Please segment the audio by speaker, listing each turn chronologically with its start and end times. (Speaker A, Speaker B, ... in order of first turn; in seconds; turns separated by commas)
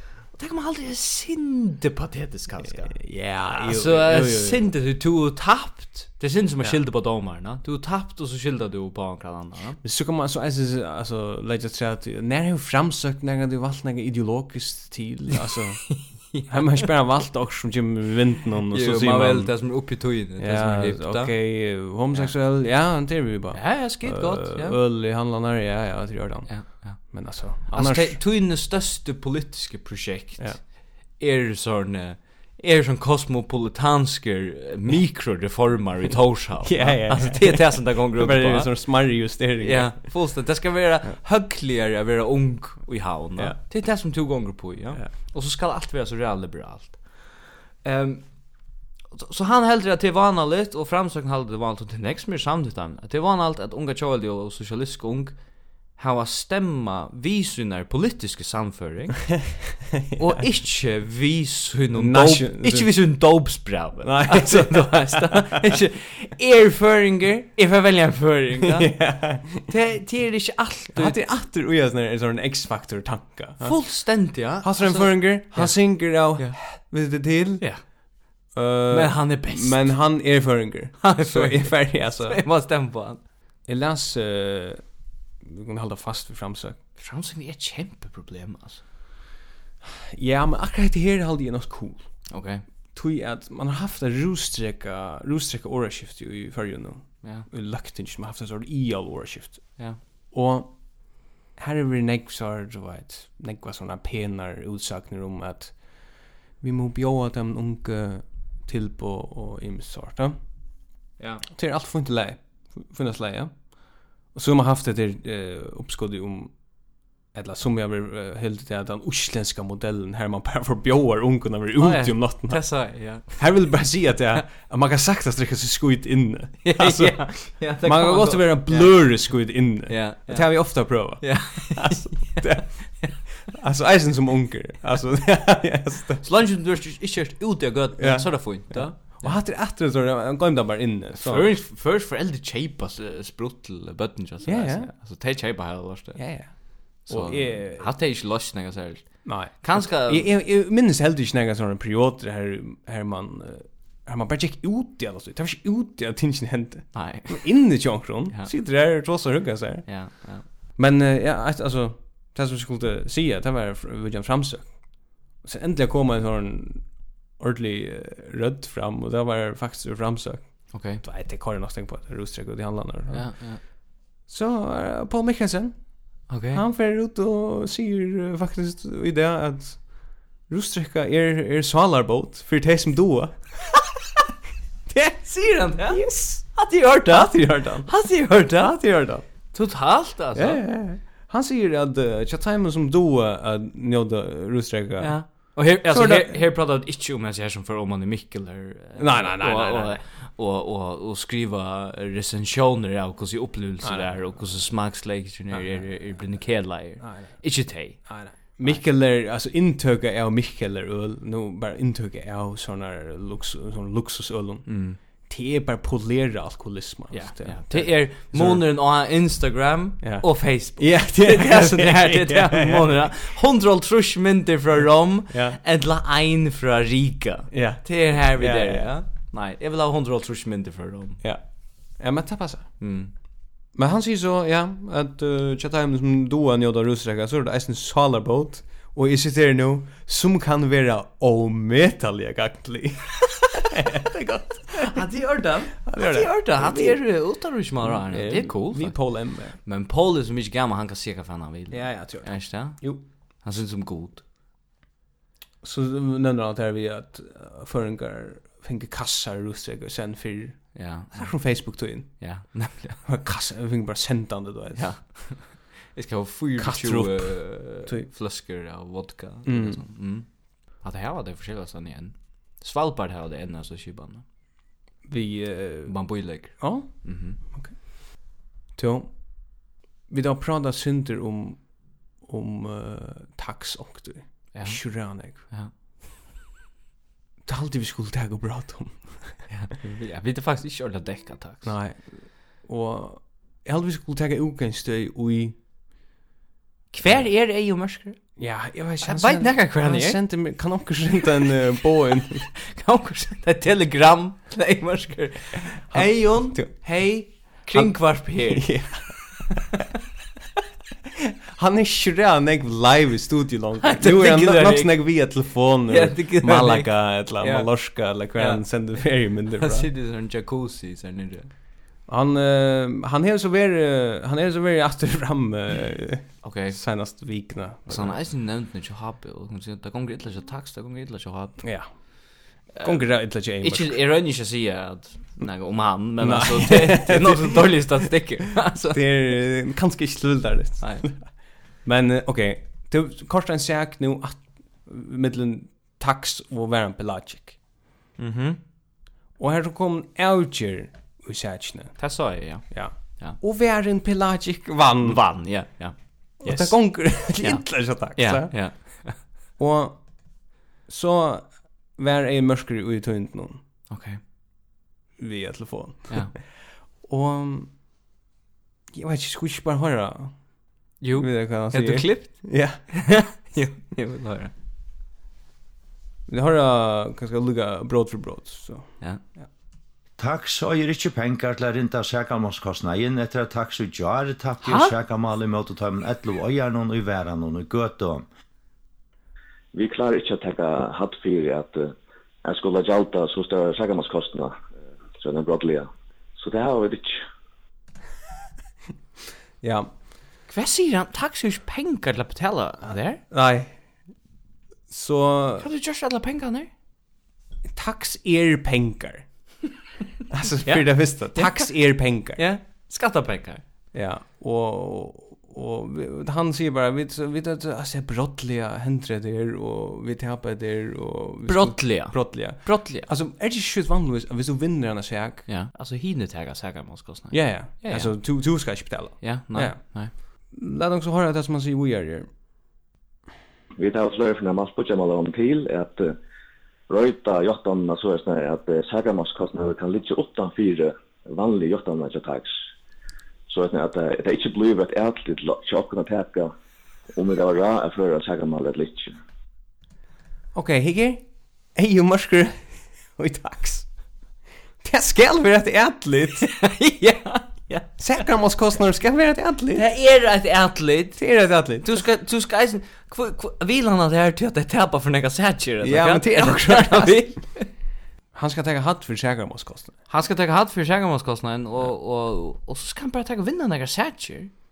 Speaker A: 0.3-9.8, Speaker B: 2.7-4.7, Speaker B: 9.8-19.8, Speaker A: 15.9-16.8, Speaker A: 18.7-22.3, Speaker B: 20.4-28.2, Speaker A: 23.5-24.8, Speaker A: 26.5-59.6, Speaker B: 36.6-40.2, Speaker B: 43.4-44.1, Speaker B: 59.9-60.2, Speaker A: 60.1-71.2, Speaker B: 62.0-62.9, Speaker B: 64.0-65.8, Speaker B: 68.6-69.7, Speaker B: 70.9-77.7, Speaker A: 73.6-76.9, Speaker A: 77.6-78.4, Speaker B: 78.5-82.4, Speaker A: 78.9-80.0, Speaker A: 81.0-83.2, Speaker B: 83.6-84.9, Speaker B: 85.4-86.8, Speaker A: 87.0-88.8, Speaker B: 89.8-92.3, Speaker A: 92.3-92.6, Speaker B: 92.9-110.4, Speaker A: 111.2-111.4, Speaker B: 111.4-116.7, Speaker B: 117.3-136.2, Speaker A: 121.8-123.7, Speaker A: 126.6-133.1, Speaker A: 136.2-139.4, Speaker B: 138.0-141.5, Speaker A: 141.1-150.3, Speaker B: 144.4-144.9, Speaker B: 146.2-147.9, Speaker B: 149.2-173.7, Speaker A: 156.9-158.5, Speaker A: 159.8-160.4, Speaker A: 170.7-171.0, Speaker A: 173.1-173.6, Speaker B: 174.3-183.6, Speaker A: 176.3-176.6, Speaker B: 184.9-189.2, Speaker A: 185.2-188.8, Speaker A: 189.5-190.6, Speaker B: 190.3-196.4, Speaker A: 195.0-208.8, Speaker B: 199.0-200.0, Speaker B: 203.8-204.7, Speaker B: 205.5-214.7, Speaker A: 214.7-215.0, Speaker B: 215.3-218.6, Speaker A: 217.1-231.2, Speaker B: 220.0-223.1, Speaker B: 225.3-225.6, Speaker B: 227.5-228.9, Speaker B: 231.2-232.8, Speaker A: 232.8-233.1, Speaker B: 233.7-245.1, Speaker A: 244.8-254.2, Speaker B: 245.8-247.1, Speaker B: 247.8-249.6, Speaker B: 251.7-253.0, Speaker B: 255.6-265.0, Speaker A: 260.7-263.0, Speaker A: 264.8-274.2, Speaker B: 266.6-268.1, Speaker B: 269.4-269.8, Speaker B: 275.0-277.8, Speaker A: 275.9-277.4, Speaker B: 278.7-285.4, Speaker A: 284.5-285.7, Speaker B: 287.4-289.4, Speaker A: 289.5-291.8, Speaker B: 291.6-295.6, Speaker A: 296.9-298.2, Speaker B: 297.0-297.3, Speaker B: 298.4-302.5, Speaker A: 299.0-300.2, Speaker A: 302.7-309.2, Speaker B: 305.9-307.0, Speaker B: 307.7-309.6, Speaker B: 311.5-319.9, Speaker A: 313.8-315.2, Speaker A: 315.9-317.7, Speaker A: 318.3-321.5, Speaker B: 322.1-328.2, Speaker A: 326.4-326.8, Speaker A: 327.9-331.6, Speaker B: 331.6-334.0, Speaker A: 332.7-339.0, Speaker B: 336.2-338.1, Speaker B: 338.7-347.6, Speaker A: 340.8-341.1, Speaker A: 348.2-348.6, Speaker B: 349.4-355.2, Speaker A: 352.0-353.4, Speaker A: 355.0-359.2, Speaker B: 356.4-359.0, Speaker B: 359.6-363.6, Speaker A: 363.9-364.2, Speaker B: 365.2-366.4, Speaker A: 366.1-366.3, Speaker B: 367.0-367.7, Speaker B: 368.9-370.4, Speaker A: 371.0-374.5, Speaker B: 371.1-372.8, Speaker B: 376.3-379.4, Speaker C: 380.2-388.3, Speaker A: 384.6-384.9, Speaker D: 389.7-394.6, Speaker D: 395.2-397.2, Speaker B: 399.6-399.9, Speaker A: 400.5-403.2, Speaker B: 403.3-403.8, Speaker B: 404.9-405.7, Speaker A: 405.6-406.7, Speaker B: 407.7-409.2, Speaker B: 410.3-412.4, Speaker A: 410.6-411.7, Speaker A: 412.4-413.6, Speaker B: 413.9-425.5, Speaker A: 421.5-423.1, Speaker A: 425.5-428.3, Speaker B: 427.3-432.3, Speaker A: 429.2-430.1, Speaker D: 433.8-436.2, Speaker D: 436.9-442.5, Speaker D: 443.5-446.5, Speaker D: 447.1-449.2, Speaker B: 450.5-453.9, Speaker B: 454.8-456.5, Speaker A: 456.4-457.9, Speaker B: 458.0-459.8, Speaker A: 459.7-461.2, Speaker B: 461.1-462.0, Speaker A: 461.8-467.7, Speaker B: 465.8-467.4, Speaker B: 468.3-469.9, Speaker A: 470.1-474.5